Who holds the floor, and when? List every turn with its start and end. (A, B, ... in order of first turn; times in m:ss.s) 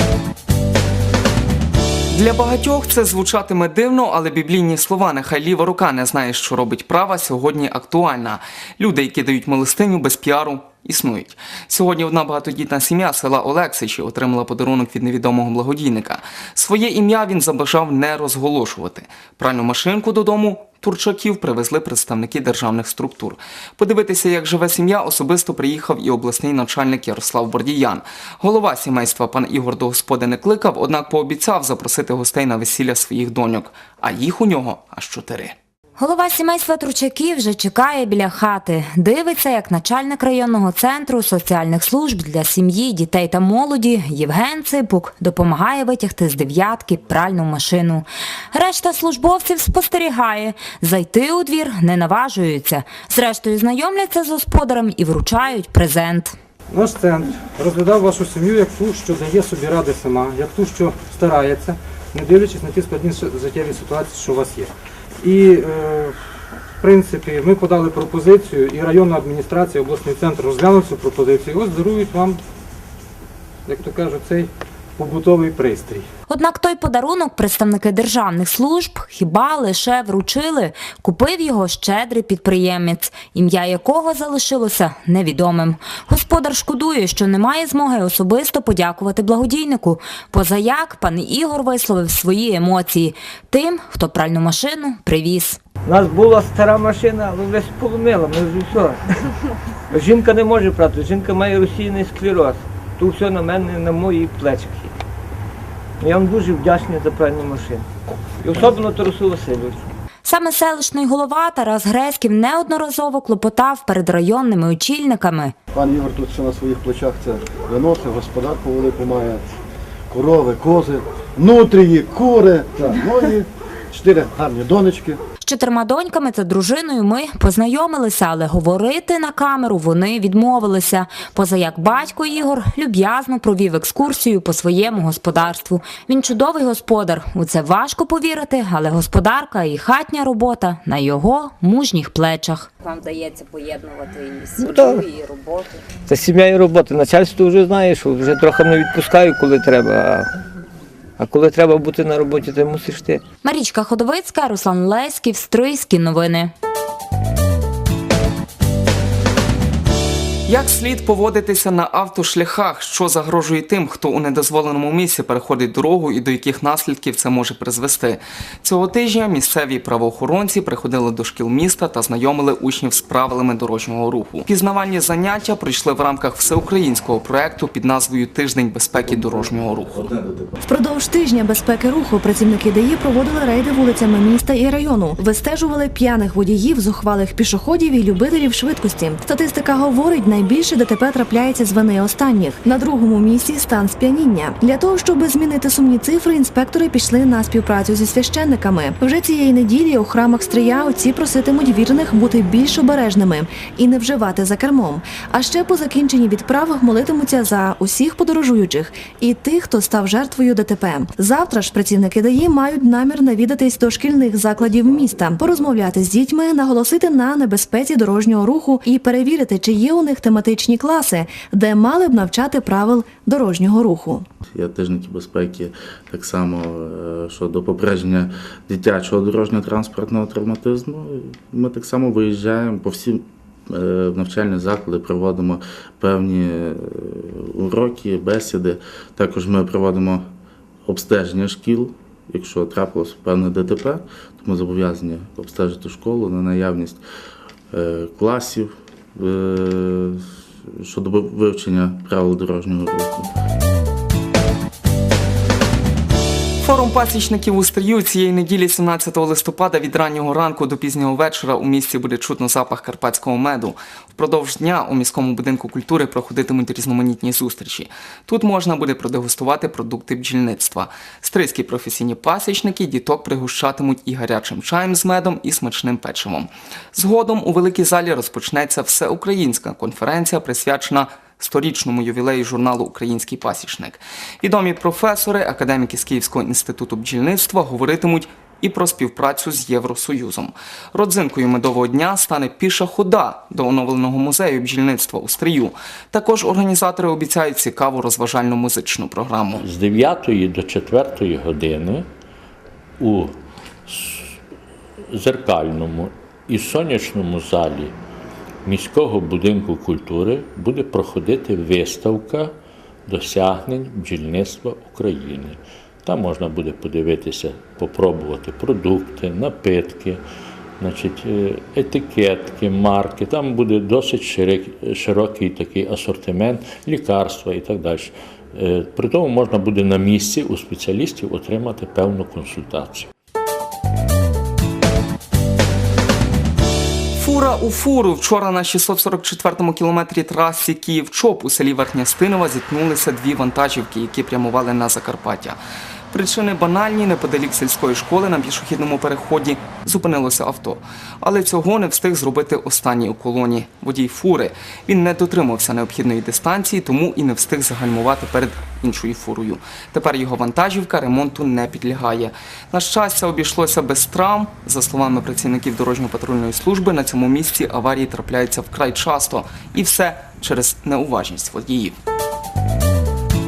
0:02.1-0:35.6 A
0:36.0-0:56.3 B
0:56.7-1:04.7 C
1:05.2-1:06.2 C
1:06.8-1:12.4 C
1:13.7-1:16.1 C
1:16.3-1:35.6 B
1:35.8-1:39.3 D
1:39.9-1:44.9 D
1:46.0-1:47.9 D
1:48.4-1:49.9 D
1:50.2-1:55.5 B
1:55.7-1:59.5 E
2:00.1-2:05.2 E
2:05.4-2:25.8 B
2:24.6-2:25.0 D
2:26.1-2:30.4 D
2:31.2-2:33.2 D
2:33.4-2:36.5 B
2:40.5-3:00.1 A
2:59.0-3:00.6 F
3:00.6-3:44.3 G
3:44.5-4:00.3 F
4:00.9-4:07.0 F
4:07.7-4:13.3 F
4:16.6-4:59.6 A
4:59.6-5:02.1 H
5:03.0-5:03.3 H
5:03.9-5:04.4 H
5:05.1-5:07.9 H
5:08.6-5:12.5 H
5:13.1-5:20.2 H
5:20.8-5:33.1 H
5:37.2-5:45.6 A
5:46.1-6:12.0 A